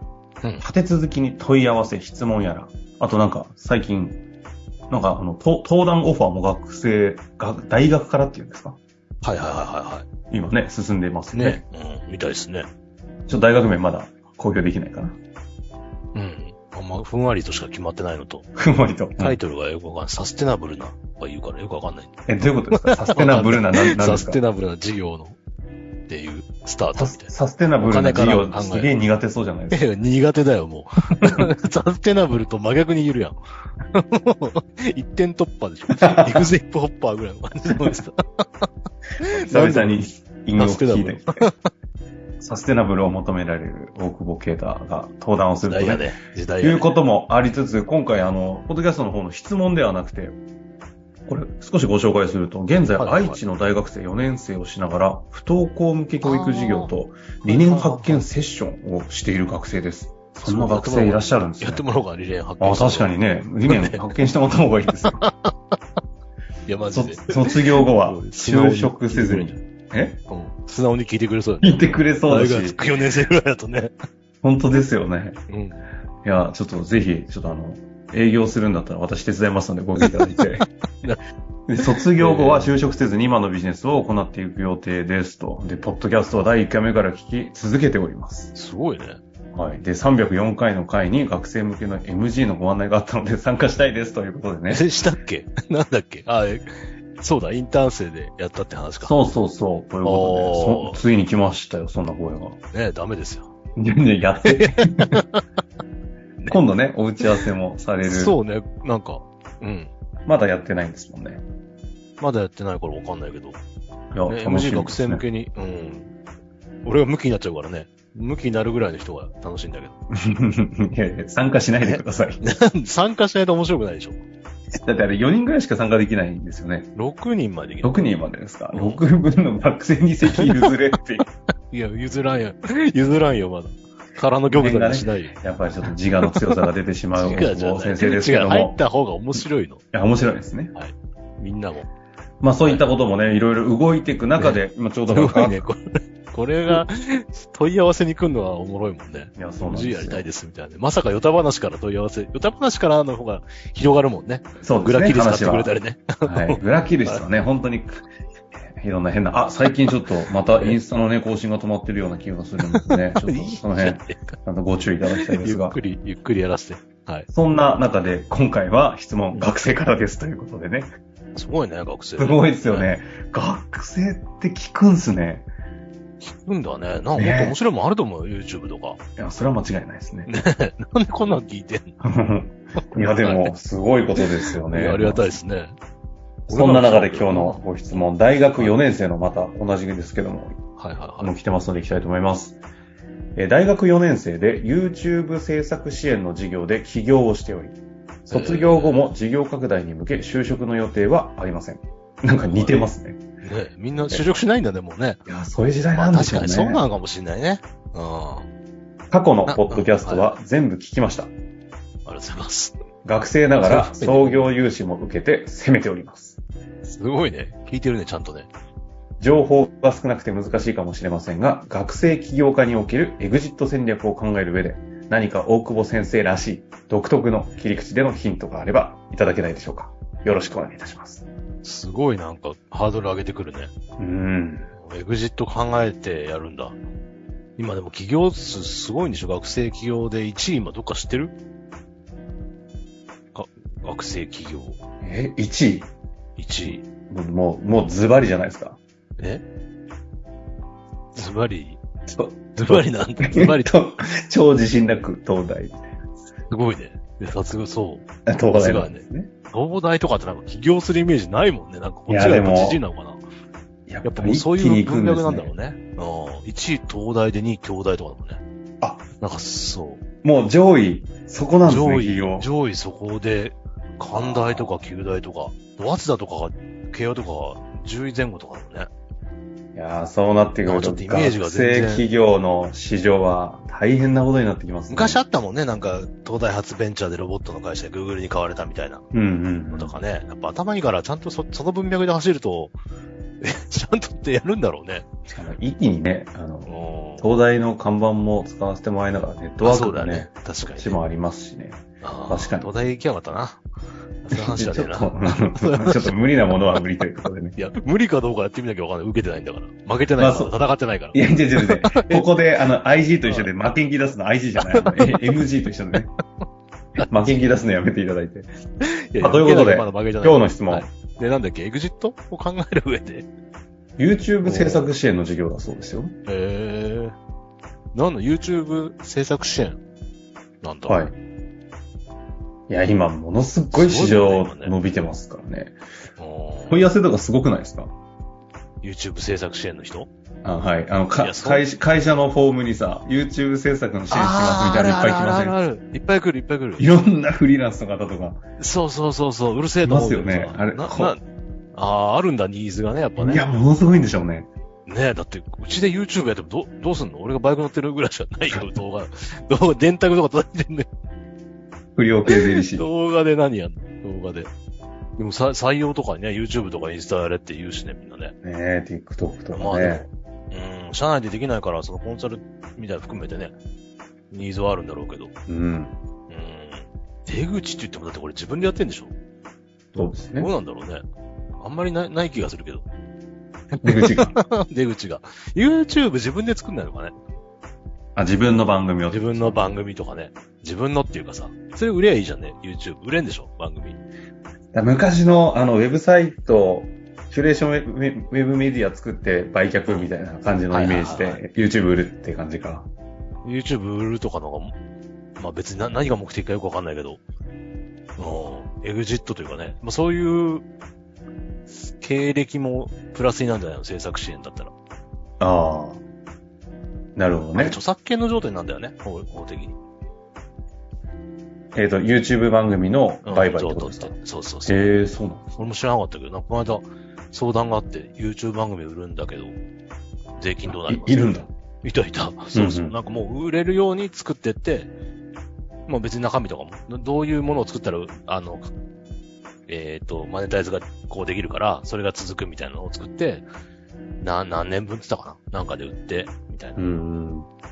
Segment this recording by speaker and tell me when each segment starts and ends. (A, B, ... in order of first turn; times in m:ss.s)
0:00.6-0:04.2 A
0:04.9-0:08.8 A
0:09.2-0:10.1 B
0:10.3-0:11.6 A
0:11.3-0:12.7 B
0:13.3-0:15.2 A
0:16.1-0:18.5 B
0:18.6-0:19.4 A
0:19.1-0:22.2 B
0:22.2-0:24.4 A
0:22.7-0:25.4 B
0:26.1-0:28.9 B
0:26.9-0:29.9 A
0:29.7-0:33.4 B
0:33.9-0:38.6 B
0:36.0-0:36.3 A
0:39.2-0:40.0 B
0:39.3-0:41.5 A
0:40.6-0:41.5 B
0:42.4-0:46.1 A
0:45.6-0:46.9 B
0:46.6-0:50.4 A
0:51.2-1:01.8 A
0:53.0-0:53.4 B
0:56.2-0:58.2 B
1:00.4-1:03.1 B
1:02.6-1:05.2 A
1:03.7-1:04.2 B
1:05.0-1:05.5 B
1:06.7-1:09.6 B
1:06.9-1:10.2 A
1:10.3-1:13.9 B
1:11.6-1:12.8 A
1:14.4-1:15.4 A
1:15.5-1:15.8 B
1:16.2-1:20.7 A
1:20.0-1:20.4 B
1:21.7-1:28.5 A
1:21.8-1:22.7 B
1:28.5-1:29.2 B
1:29.5-1:34.8 A
1:34.7-1:39.2 B
1:39.0-1:42.6 A
1:40.0-1:41.0 B
1:42.7-1:43.5 B
1:43.8-1:45.1 A
1:44.4-1:45.4 B
1:46.5-1:48.4 A
1:48.0-1:49.9 B
1:50.2-1:51.4 A
1:52.2-1:53.6 B
1:54.1-1:55.2 A
1:54.3-1:56.1 B
1:56.8-2:00.0 B
2:00.1-2:02.4 A
2:01.8-2:04.2 B
2:04.7-2:06.9 A
2:07.0-2:08.0 B
2:07.8-2:11.3 A
2:08.7-2:09.0 B
2:10.3-2:10.7 B
2:11.7-2:15.3 B
2:14.5-2:18.8 A
2:16.2-2:16.6 B
2:17.1-2:19.8 B
2:19.9-2:20.7 A
2:20.7-2:21.9 B
2:22.4-2:25.6 A
2:24.4-2:37.2 B
2:29.3-2:30.3 A
2:34.6-2:38.1 A
2:38.6-2:45.8 A
2:40.4-2:40.8 B
2:42.8-2:44.4 B
2:45.2-2:47.3 B
2:47.3-2:50.9 A
2:51.3-2:52.9 B
2:52.2-2:55.5 A
2:56.2-2:59.0 B
2:57.1-2:57.6 A
2:59.2-3:00.3 A
3:00.2-3:01.9 B
3:02.0-3:05.3 A
3:03.2-3:03.5 B
3:04.2-3:05.8 B
3:06.5-3:07.6 B
3:06.5-3:10.6 A
3:10.8-3:11.3 B
3:11.2-3:12.6 A
3:13.3-3:17.8 A
3:18.2-3:19.1 B
3:18.3-3:23.2 A
3:22.4-3:22.8 B
3:23.4-3:25.2 B
3:25.2-3:26.8 A
3:25.9-3:28.5 B
3:29.1-3:31.3 A
3:29.4-3:30.4 B
3:32.0-3:32.8 B
3:33.0-3:36.4 A
3:33.6-3:34.4 B
3:36.9-3:38.5 B
3:39.2-3:51.2 A
3:51.6-3:53.7 B
3:54.0-3:54.7 A
3:54.8-3:56.8 B
3:57.6-4:01.3 B
4:03.3-4:04.8 B
4:05.0-4:05.9 A
4:06.4-4:06.8 B
4:06.6-4:08.8 A
4:11.1-4:11.8 B
4:12.1-4:16.0 A
4:12.6-4:13.7 B
4:16.5-4:23.2 B
4:18.2-4:19.3 A
4:22.1-4:22.8 A
4:23.9-4:25.5 A
4:24.0-4:28.4 B
4:28.8-4:29.0 A
4:29.2-4:30.0 B
4:30.2-4:32.5 A
4:31.6-4:38.9 B
4:34.1-4:34.8 A
4:39.7-4:45.2 A
4:40.6-4:42.1 B
4:44.9-4:49.0 B
4:49.1-4:50.0 A
4:49.7-4:52.7 B
4:53.4-4:55.1 B
4:55.2-5:02.7 A
4:56.6-4:57.3 B
4:59.6-5:01.0 B
5:02.0-5:03.6 B
5:04.2-5:06.8 B
5:04.3-5:07.6 A
5:07.5-5:12.3 B
5:10.2-5:10.6 A
5:11.1-5:16.1 A
5:13.2-5:13.5 B
5:14.6-5:15.2 B
5:17.0-5:18.5 A
5:17.0-5:17.5 B
5:19.1-5:23.3 B
5:19.2-5:20.9 A
5:24.0-5:26.2 A
5:24.4-5:24.9 B
5:26.2-5:27.1 B
5:27.9-5:29.8 B
5:30.6-5:31.0 B
5:30.9-5:31.2 A
5:32.7-5:35.8 A
5:33.7-5:34.8 B
5:36.2-5:36.9 B
5:36.7-5:37.9 A
5:38.8-5:40.1 B
5:40.4-5:45.6 A
5:41.1-5:41.7 B
5:44.1-5:46.9 B
5:46.8-5:48.4 A
5:48.6-5:51.2 B
5:49.8-5:51.2 A
5:51.7-5:53.4 B
5:53.2-5:54.5 A
5:54.9-6:00.9 B
6:02.0-6:02.9 A
6:02.2-6:04.5 B
6:05.2-6:08.3 B
6:08.4-6:10.1 A
6:09.5-6:13.5 B
6:14.3-6:15.3 B
6:15.5-6:16.0 A
6:16.3-6:19.1 B
6:19.9-6:20.5 A
6:20.0-6:21.0 B
6:21.6-6:22.8 B
6:23.8-6:24.4 A
6:23.8-6:27.1 B
6:28.2-6:29.8 A
6:29.1-6:34.0 B
6:34.7-6:42.9 A
6:40.7-6:41.4 B
6:43.4-6:44.7 B
6:45.4-6:47.2 B
6:45.8-6:46.1 A
6:48.2-6:50.6 B
6:51.7-6:54.7 B
6:55.4-6:56.0 A
6:57.2-6:57.8 A
6:57.5-6:59.8 B
7:01.7-7:04.1 A
7:03.2-7:04.9 B
7:04.6-7:05.7 A
7:05.6-7:09.6 B
7:10.4-7:14.9 B
7:10.6-7:11.5 A
7:12.5-7:13.0 A
7:15.9-7:18.7 B
7:19.7-7:23.4 B
7:24.2-7:26.9 B
7:26.8-7:27.5 A